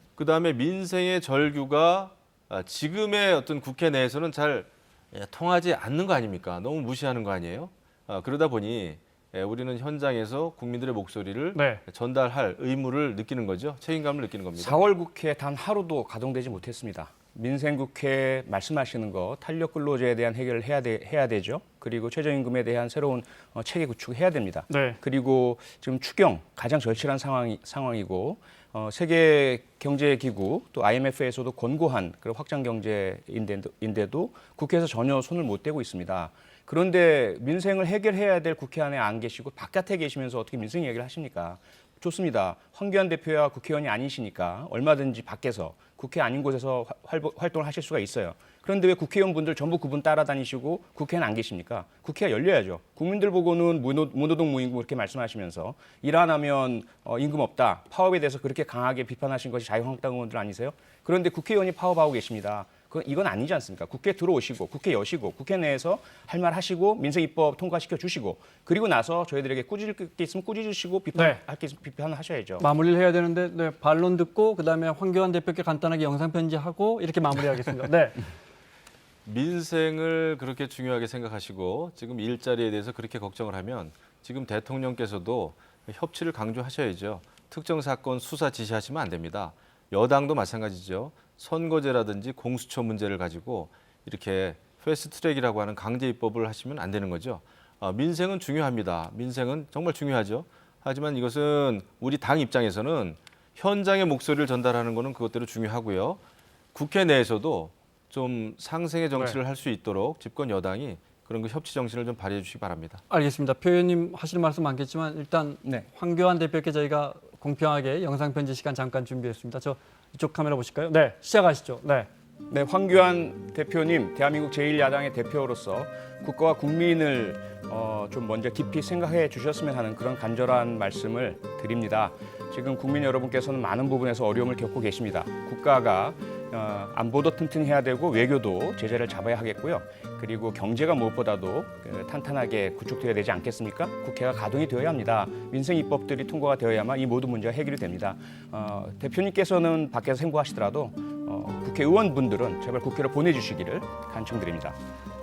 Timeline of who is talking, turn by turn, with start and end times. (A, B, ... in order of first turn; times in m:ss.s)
0:00.2-0:14.8 A
0:11.5-0:11.8 B
0:14.6-1:12.6 C
0:24.7-0:25.0 B
1:11.1-1:11.4 B
1:12.6-1:18.2 B
1:19.2-1:46.2 A
1:46.7-1:53.0 A
1:53.1-2:02.1 B
2:02.5-2:34.8 C